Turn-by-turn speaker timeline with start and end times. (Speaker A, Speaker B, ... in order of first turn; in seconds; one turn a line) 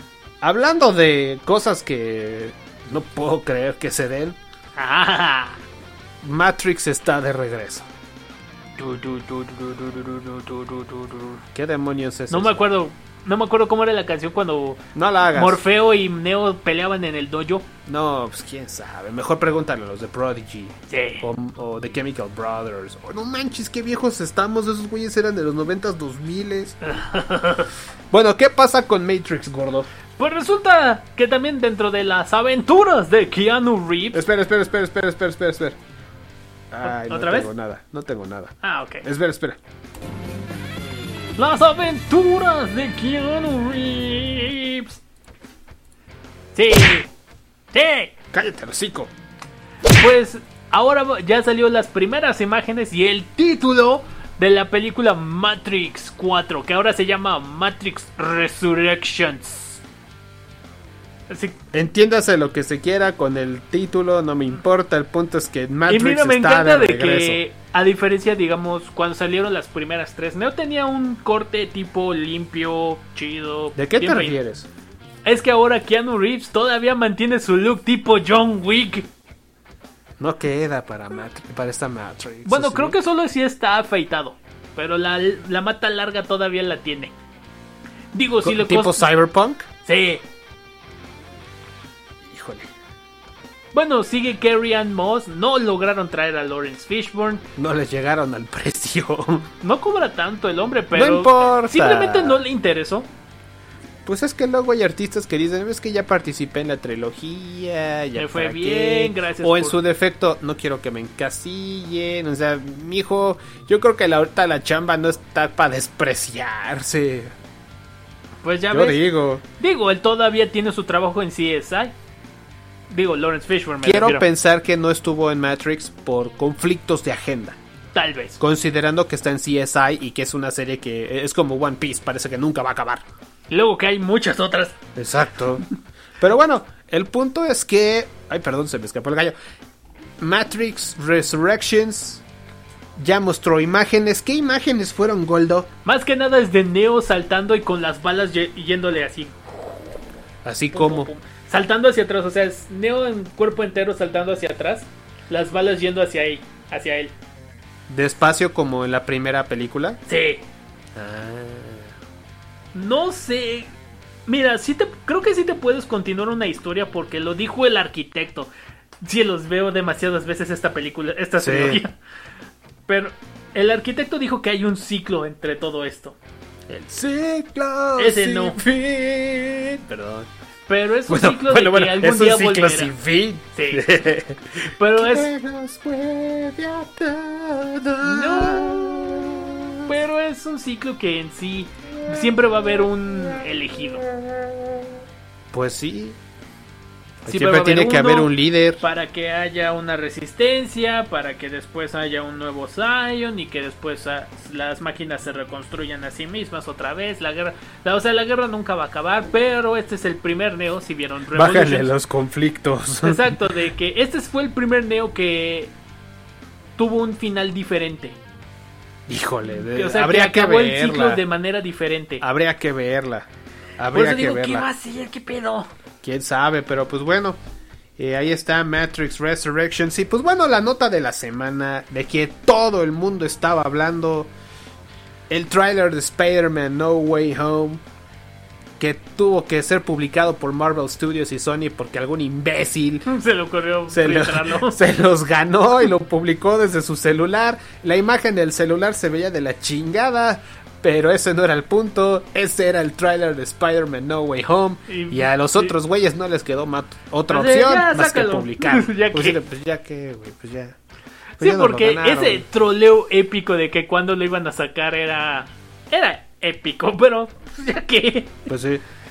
Speaker A: 0.4-4.4
Speaker B: 4.8-5.6
Speaker A: 6.2-7.9
Speaker B: 8.8-11.4
Speaker A: 11.5-12.6
Speaker B: 12.3-17.7
Speaker A: 14.9-15.6
Speaker A: 17.9-26.8
Speaker B: 20.9-21.3
Speaker B: 26.9-27.7
Speaker A: 28.1-29.9
Speaker B: 30.2-34.2
Speaker A: 34.1-35.8
Speaker A: 36.7-39.6
Speaker B: 36.8-37.5
Speaker B: 38.6-39.0
Speaker B: 41.4-45.0
Speaker B: 46.5-47.1
Speaker B: 47.7-48.1
Speaker A: 48.3-49.1
Speaker B: 49.9-59.8
Speaker B: 61.3-61.6
Speaker A: 61.7-67.4
Speaker B: 65.9-74.4
Speaker A: 73.8-74.7
Speaker B: 75.2-79.1
Speaker A: 80.2-83.0
Speaker B: 82.5-87.1
Speaker B: 88.1-89.1
Speaker A: 88.4-89.7
Speaker B: 89.8-90.2
Speaker A: 92.2-92.7
Speaker B: 93.7-97.5
Speaker A: 97.6-99.5
Speaker B: 99.6-103.1
Speaker A: 100.9-102.4
Speaker A: 104.0-117.3
Speaker B: 108.2-109.8
Speaker B: 118.4-119.0
Speaker A: 118.7-119.4
Speaker B: 119.6-121.9
Speaker B: 122.9-124.3
Speaker A: 123.8-127.6
Speaker B: 127.9-128.4
Speaker A: 128.4-133.1
Speaker B: 133.5-134.8
Speaker A: 135.0-135.7
Speaker A: 136.2-139.4
Speaker A: 140.2-142.2
Speaker A: 143.0-145.7
Speaker B: 145.8-149.4
Speaker A: 150.4-151.1
Speaker B: 150.7-157.1
Speaker A: 157.9-160.0
Speaker B: 160.1-160.4
Speaker A: 160.9-161.9
Speaker B: 162.7-163.7
Speaker B: 164.3-168.5
Speaker B: 169.0-172.0
Speaker A: 171.4-171.8
Speaker B: 172.9-176.2
Speaker A: 176.7-180.3
Speaker B: 178.0-178.6
Speaker B: 180.7-182.9
Speaker A: 181.1-189.9
Speaker B: 183.5-183.9
Speaker B: 184.8-185.3
Speaker B: 188.0-188.9
Speaker B: 189.9-194.0
Speaker A: 191.9-194.9
Speaker A: 195.5-196.2
Speaker A: 197.2-198.8
Speaker B: 197.3-211.9
Speaker A: 211.3-213.4
Speaker B: 213.0-215.7
Speaker B: 216.8-218.2
Speaker A: 219.1-221.2
Speaker B: 219.5-222.2
Speaker A: 222.2-223.3
Speaker A: 223.8-224.7
Speaker B: 223.9-225.7
Speaker A: 226.0-227.4
Speaker A: 228.0-234.3
Speaker A: 235.3-237.8
Speaker A: 238.8-243.1
Speaker B: 243.1-244.8
Speaker A: 243.9-260.8
Speaker B: 254.9-255.7
Speaker B: 257.3-259.4
Speaker B: 261.4-268.5
Speaker A: 261.4-262.5
Speaker A: 268.5-268.8